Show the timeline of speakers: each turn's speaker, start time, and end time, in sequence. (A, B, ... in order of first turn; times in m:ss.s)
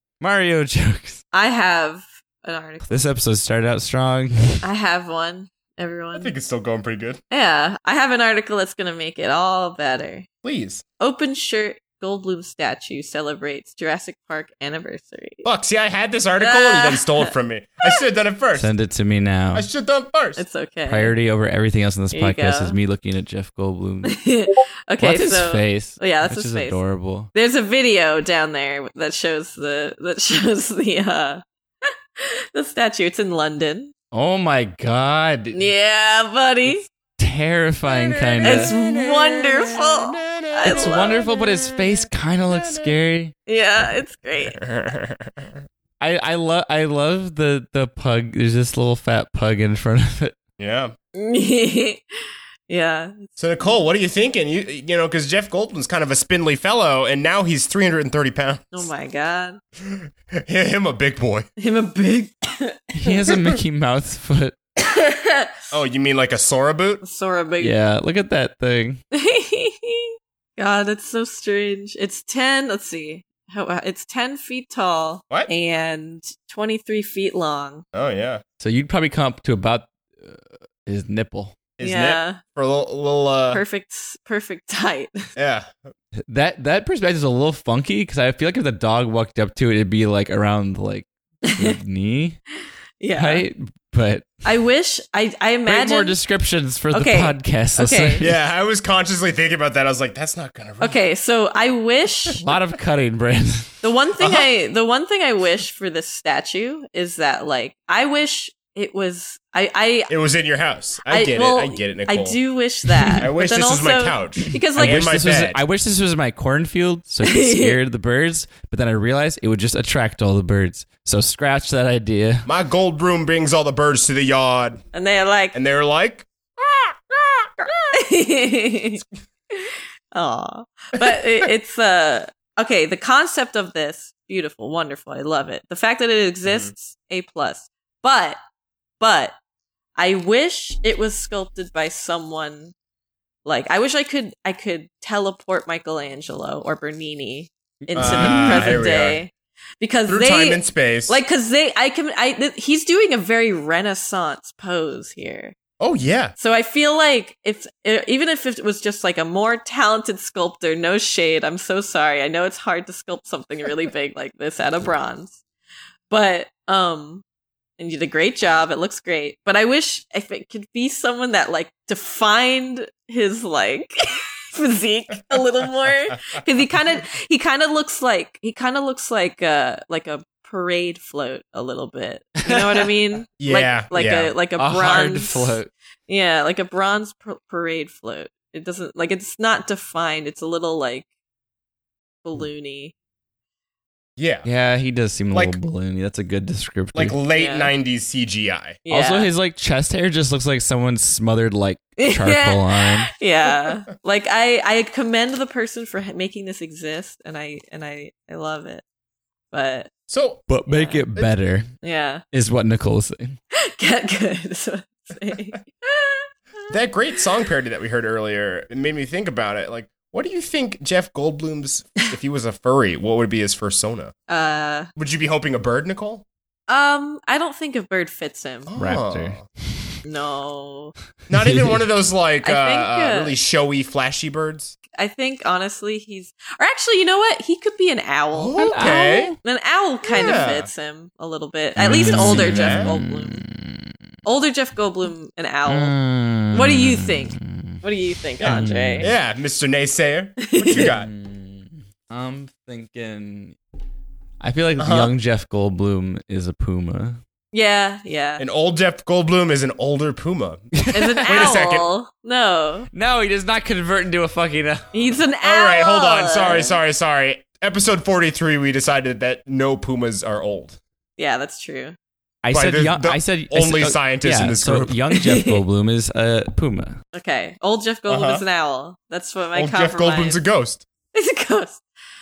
0:00.2-0:01.2 A
0:01.3-0:03.0 B
0:02.9-0:04.6 A
0:04.6-0:06.3 B
0:06.2-0:07.2 C
0:07.3-0:10.3 B
0:10.4-0:10.8 C
0:11.0-0:15.5 B
0:15.4-0:18.7 C
0:16.4-0:17.3 B
0:18.5-0:19.7 A
0:19.5-0:20.4 C
0:20.4-0:21.1 B
0:20.9-0:24.2 A
0:22.1-0:22.8 B
0:24.1-0:26.8 B
0:25.0-0:27.3 A
0:27.3-0:31.4 B
0:32.2-0:33.9 B
0:34.1-0:35.6 A
0:35.5-0:36.8 B
0:37.2-0:38.7 A
0:37.9-0:42.9 C
0:38.4-0:41.2 B
0:40.6-0:43.3 A
0:43.5-0:44.6 B
0:44.5-0:45.5 C
0:46.0-0:50.4 A
0:50.6-0:50.9 C
0:51.1-0:52.0 B
0:52.7-0:53.8 B
0:53.4-0:58.9 C
0:58.7-0:59.6 B
0:59.8-1:01.5 C
1:01.6-1:03.2 B
1:02.9-1:04.6 A
1:04.8-1:05.5 B
1:05.7-1:07.0 C
1:07.0-1:07.7 B
1:07.6-1:09.0 A
1:09.1-1:17.8 B
1:17.9-1:18.4 C
1:18.6-1:21.6 A
1:21.8-1:23.6 C
1:21.8-1:22.4 B
1:23.5-1:25.2 B
1:25.4-1:25.7 C
1:26.2-1:32.4 A
1:31.4-1:31.8 B
1:33.0-1:33.4 B
1:33.2-1:34.4 A
1:34.4-1:36.2 B
1:35.6-1:38.4 A
1:36.9-1:38.2 B
1:38.2-1:41.0 C
1:40.8-1:42.4 B
1:42.4-1:43.8 A
1:43.8-1:50.1 B
1:44.2-1:44.5 C
1:50.1-1:52.4 C
1:51.1-1:55.1 B
1:53.2-1:55.6 C
1:54.5-2:02.5 A
1:57.2-1:57.8 B
2:02.4-2:04.8 C
2:04.9-2:05.6 B
2:05.5-2:07.8 C
2:07.9-2:18.4 B
2:16.5-2:16.7 C
2:19.0-2:19.3 B
2:20.0-2:22.7 B
2:23.4-2:35.6 B
2:27.8-2:28.8 A
2:28.0-2:29.2 C
2:30.1-2:31.2 C
2:35.8-2:36.3 C
2:36.4-2:45.4 B
2:46.1-2:47.2 B
2:47.8-3:11.1 B
3:02.5-3:02.8 A
3:03.4-3:04.3 C
3:04.6-3:05.7 A
3:12.2-3:12.9 B
3:14.2-3:14.5 C
3:14.4-3:17.2 A
3:15.3-3:15.6 C
3:16.9-3:18.8 C
3:17.3-3:17.7 B
3:18.8-3:19.3 B
3:18.9-3:23.1 A
3:22.0-3:28.8 B
3:29.5-3:29.9 B
3:30.1-3:30.5 C
3:30.5-3:31.7 A
3:30.7-3:31.0 B
3:31.8-3:32.2 B
3:32.3-3:33.4 A
3:33.5-3:36.3 B
3:36.7-3:44.1 C
3:44.3-3:44.9 B
3:45.0-3:46.2 C
3:46.7-3:48.7 B
3:48.7-3:49.4 C
3:48.8-3:49.5 A
3:50.0-3:50.9 B
3:51.3-3:54.8 C
3:51.3-3:51.8 A
3:52.4-3:53.3 B
3:55.0-4:03.4 B
3:58.3-3:59.3 C
3:58.6-3:59.4 A
4:00.1-4:00.7 C
4:01.8-4:03.9 A
4:01.8-4:02.9 C
4:04.2-4:05.9 B
4:05.6-4:07.7 A
4:06.5-4:09.1 B
4:08.4-4:09.1 A
4:08.4-4:11.1 C
4:10.4-4:10.9 B
4:11.0-4:13.6 A
4:14.4-4:17.2 A
4:14.8-4:15.1 C
4:17.5-4:18.4 B
4:18.4-4:21.9 C
4:20.7-4:21.5 A
4:20.9-4:22.9 B
4:22.9-4:24.9 A
4:24.9-4:26.8 B
4:25.4-4:30.8 C
4:31.2-4:32.0 B
4:32.4-4:37.0 A
4:32.5-4:35.0 C
4:35.1-4:35.6 B
4:37.1-4:40.4 B
4:38.1-4:38.4 C
4:39.5-4:40.8 C
4:41.1-4:41.8 B